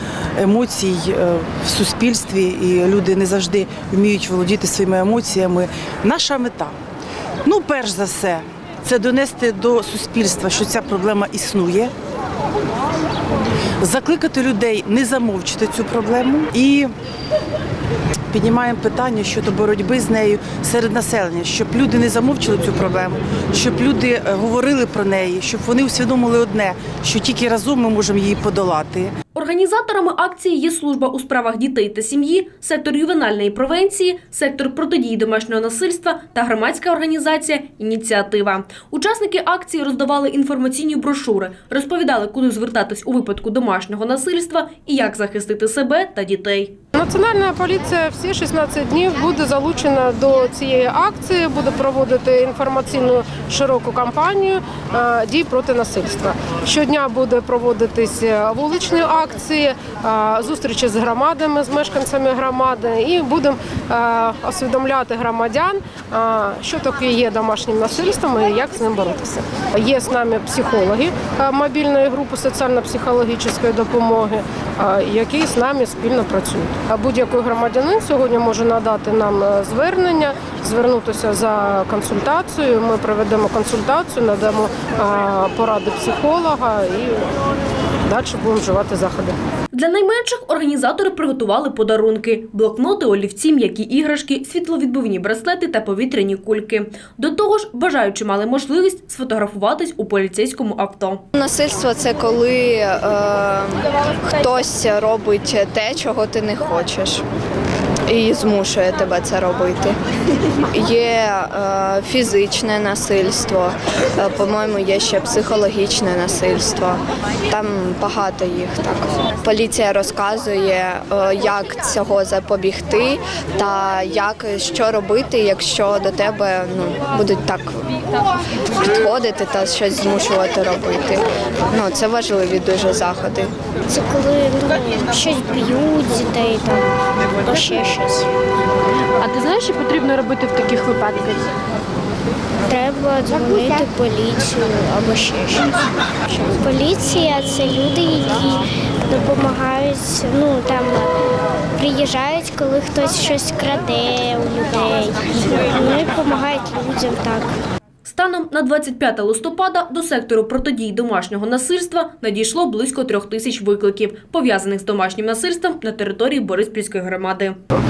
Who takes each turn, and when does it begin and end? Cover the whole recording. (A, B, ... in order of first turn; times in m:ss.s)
0:00.4-0:06.7 A
0:07.4-0:11.9 A
0:13.8-0:16.9 A
0:18.3-0:29.1 A
0:29.3-0:46.7 B
0:46.9-1:27.4 C
1:28.0-1:29.4 C
1:29.7-1:41.2 B
1:41.3-1:47.2 D
1:48.1-1:50.0 D
1:50.5-2:07.9 D
2:08.8-2:13.5 D
2:13.9-2:16.8 E
2:17.4-2:18.3 E
2:19.2-2:21.5 F
2:22.6-2:31.1 E
2:31.8-2:37.5 E
2:38.0-2:47.6 B